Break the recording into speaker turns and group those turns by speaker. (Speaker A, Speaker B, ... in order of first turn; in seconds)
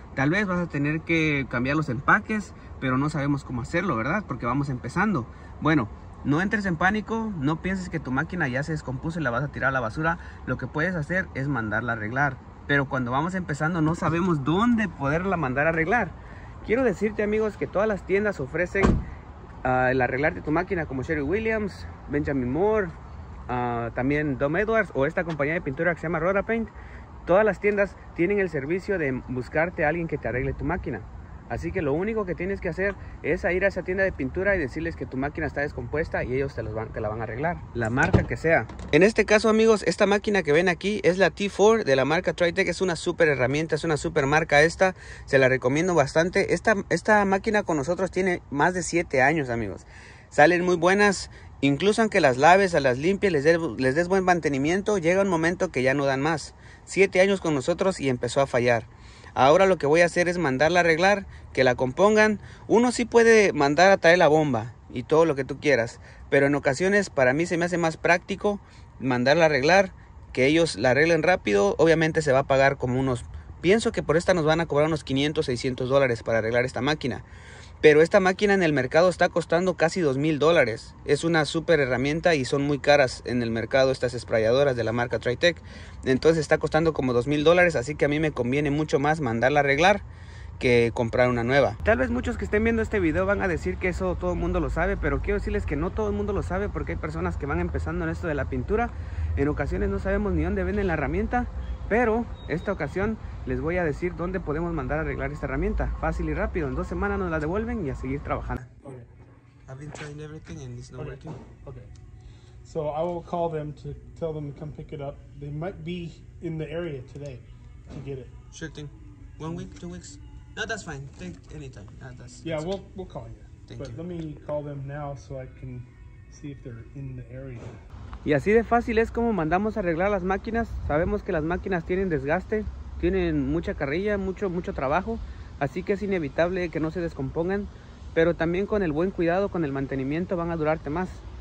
Speaker A: 0.1-19.0, 19.6-22.9, 23.5-26.7, 27.2-77.2, 77.8-90.0, 90.6-108.7, 109.7-111.4, 118.5-122.7, 123.7-124.0, 128.2-141.2
Speaker B: 108.8-109.1, 111.0-111.9, 112.6-118.3, 122.4-127.7